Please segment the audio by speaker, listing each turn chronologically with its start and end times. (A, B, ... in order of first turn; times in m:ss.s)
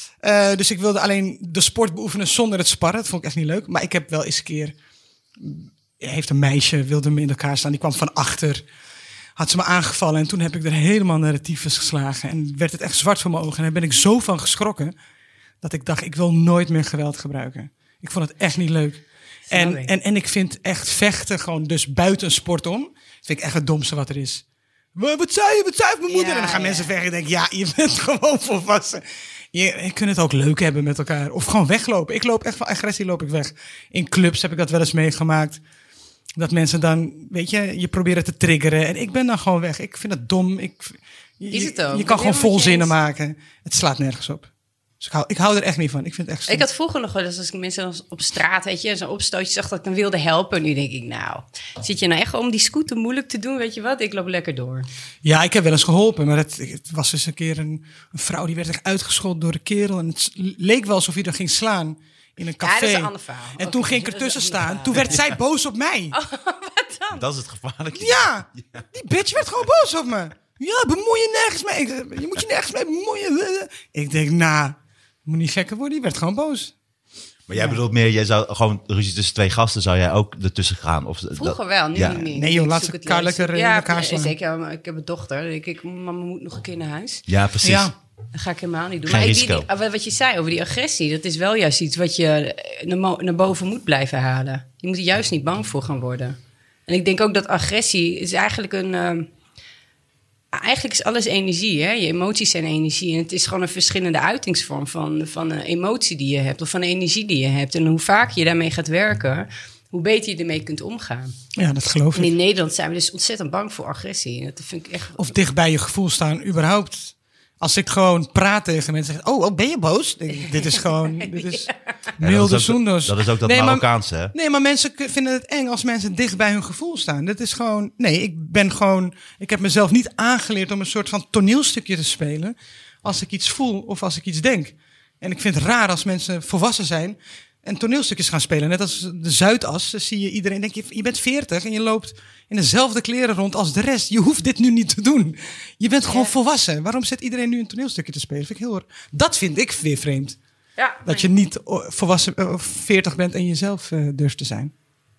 0:00.2-0:04.7 A
0:05.4-0:08.6 A
0:09.4-0:14.9 A
0:15.6-0:24.4 A
0:19.5-0:19.9 B
0:24.9-0:35.6 A
0:26.1-0:26.9 B
0:36.4-0:44.5 A
0:41.5-0:42.9 B
0:45.0-0:46.6 A
0:46.5-0:54.9 B
0:55.2-1:06.2 A
1:02.6-1:05.2 B
1:06.1-1:07.2 B
1:07.1-1:08.8 C
1:07.9-1:16.7 A
1:17.5-1:22.2 C
1:17.5-1:17.8 A
1:21.4-1:27.2 B
1:22.1-1:24.3 A
1:27.3-1:27.9 C
1:27.6-1:27.9 A
1:28.3-1:39.3 B
1:29.1-1:29.7 C
1:40.5-1:51.4 B
1:51.5-1:52.3 A
1:52.1-1:55.3 B
1:55.2-2:30.4 A
2:00.3-2:01.8 B
2:02.2-2:04.3 C
2:26.1-2:26.3 B
2:30.8-2:31.3 B
2:31.0-2:34.7 A